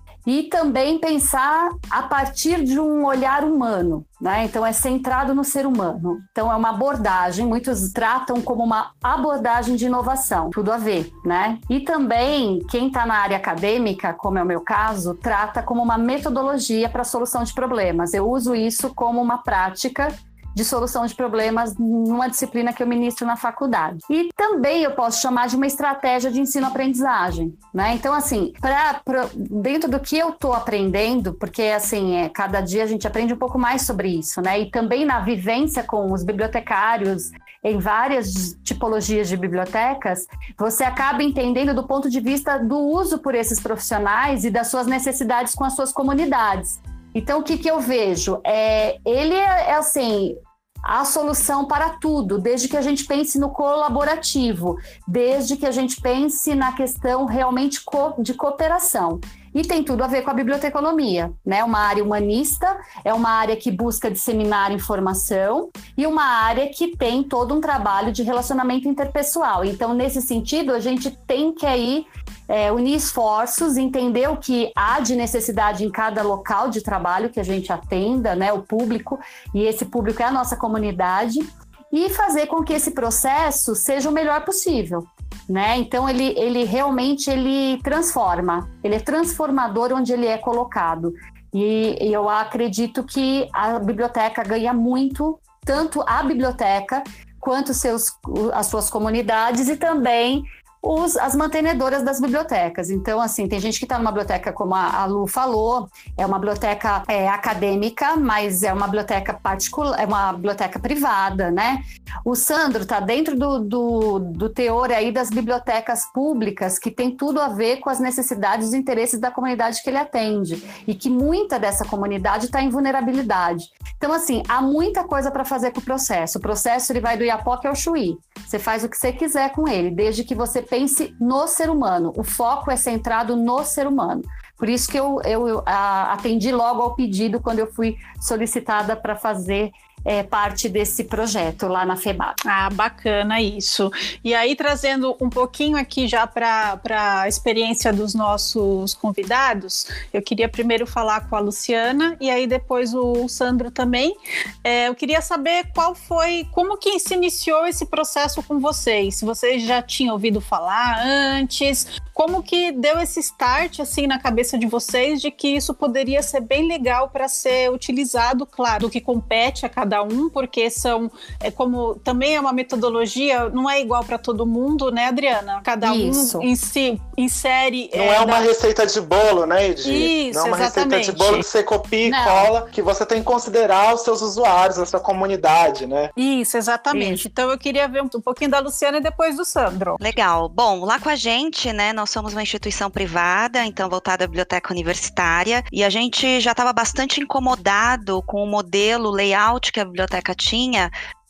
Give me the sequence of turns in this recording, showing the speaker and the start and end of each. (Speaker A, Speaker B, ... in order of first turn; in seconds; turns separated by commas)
Speaker A: 0.2-142.4, Speaker B: 142.4-178.5, Speaker A: 175.8-176.5, Speaker C: 177.9-186.1, Speaker B: 179.8-181.4, Speaker A: 182.0-182.5, Speaker B: 186.2-190.0, Speaker A: 186.9-187.2, Speaker D: 190.0-200.9